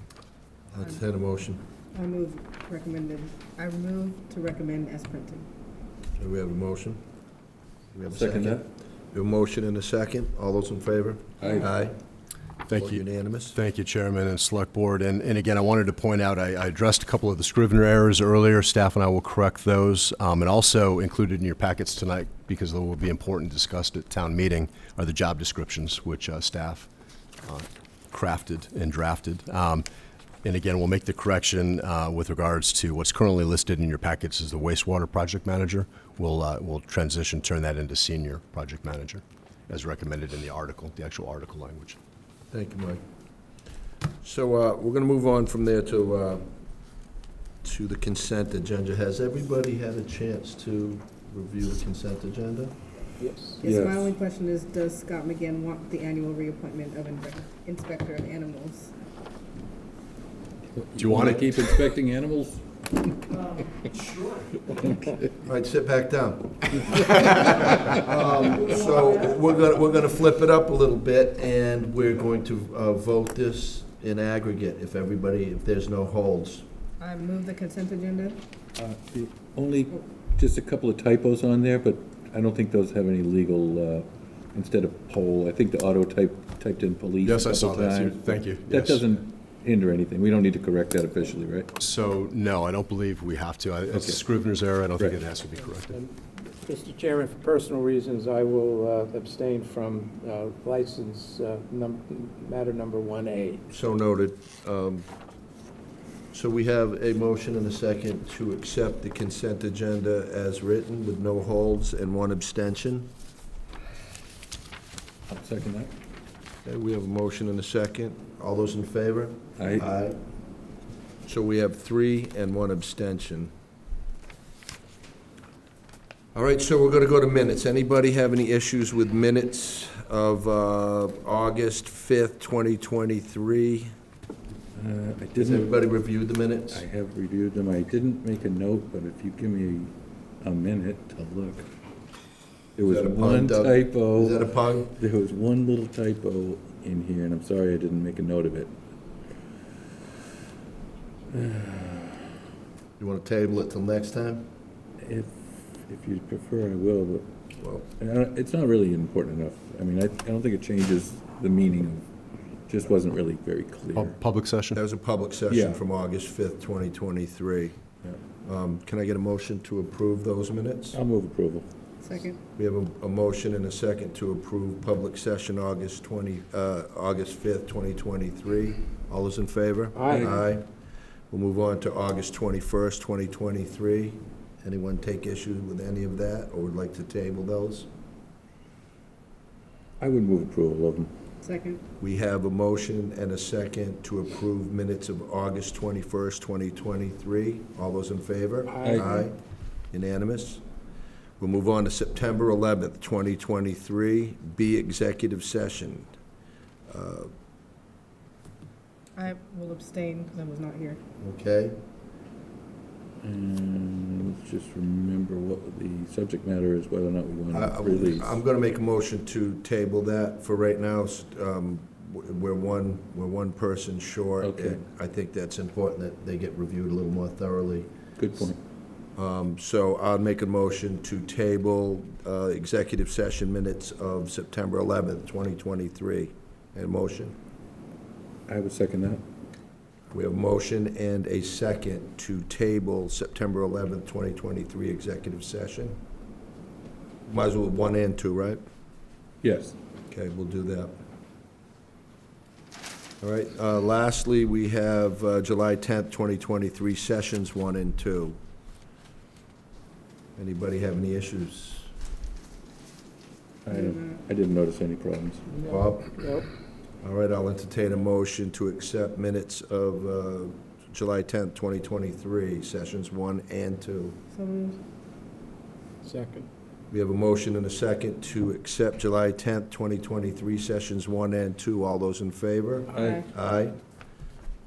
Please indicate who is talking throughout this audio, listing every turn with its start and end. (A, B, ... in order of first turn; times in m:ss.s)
0:00.7-0:01.6 A
0:01.9-0:05.4 B
0:06.2-0:07.0 A
0:07.9-0:12.0 A
0:08.1-0:08.6 C
0:12.7-0:26.9 D
0:12.7-0:13.6 A
0:27.4-0:29.8 D
0:30.4-0:42.0 D
0:42.5-0:43.0 A
0:44.2-0:46.5 A
0:47.6-0:52.7 A
0:53.2-0:53.6 E
0:53.6-0:58.9 B
0:53.6-0:54.1 C
1:00.7-1:02.7 C
1:01.0-1:01.6 D
1:04.7-1:05.3 C
1:05.4-1:16.6 A
1:17.0-1:18.4 B
1:18.8-1:31.7 C
1:27.2-1:29.0 D
1:31.8-1:35.9 D
1:33.9-1:34.2 C
1:35.9-1:43.6 E
1:43.7-1:45.1 A
1:46.3-1:53.1 A
1:55.3-1:55.9 C
1:56.6-2:00.2 A
1:59.6-1:59.8 C
2:01.2-2:03.5 A
2:06.3-2:13.9 A
2:14.8-2:15.7 C
2:15.4-2:16.8 A
2:16.7-2:21.7 C
2:22.8-2:28.7 C
2:22.8-2:24.9 A
2:31.3-2:32.4 C
2:33.0-2:34.5 A
2:35.0-2:37.3 C
2:37.6-2:37.9 A
2:38.0-2:42.1 C
2:42.7-2:44.2 C
2:43.9-2:44.8 D
2:44.7-2:47.7 A
2:45.5-2:45.8 C
2:48.4-2:51.0 A
2:50.9-2:51.7 C
2:52.0-2:52.4 B
2:52.6-3:00.7 A
2:59.9-3:00.3 E
3:00.0-3:00.3 C
3:01.3-3:07.9 A
3:10.0-3:11.1 C
3:11.4-3:11.8 B
3:12.0-3:19.4 A
3:18.7-3:19.1 E
3:18.8-3:19.1 C
3:19.9-3:20.6 A
3:21.4-3:26.1 A
3:26.9-3:27.3 A
3:29.2-3:31.0 B
3:31.2-3:31.8 A
3:33.2-3:38.4 C
3:37.5-3:47.9 A
3:44.4-3:44.8 C
3:48.2-3:48.6 C
3:49.2-3:57.3 A
3:58.5-3:59.2 C
4:00.1-4:06.0 A
4:07.3-4:08.6 A
4:09.4-4:09.8 C
4:10.1-4:11.0 A
4:13.2-4:18.4 A
4:20.4-4:21.9 A
4:23.6-4:25.4 C
4:25.5-4:26.4 E
4:25.7-4:26.3 A
4:27.0-4:34.2 A
4:34.3-4:34.8 B
4:36.0-4:36.5 E
4:36.9-4:43.8 A
4:42.9-4:43.2 C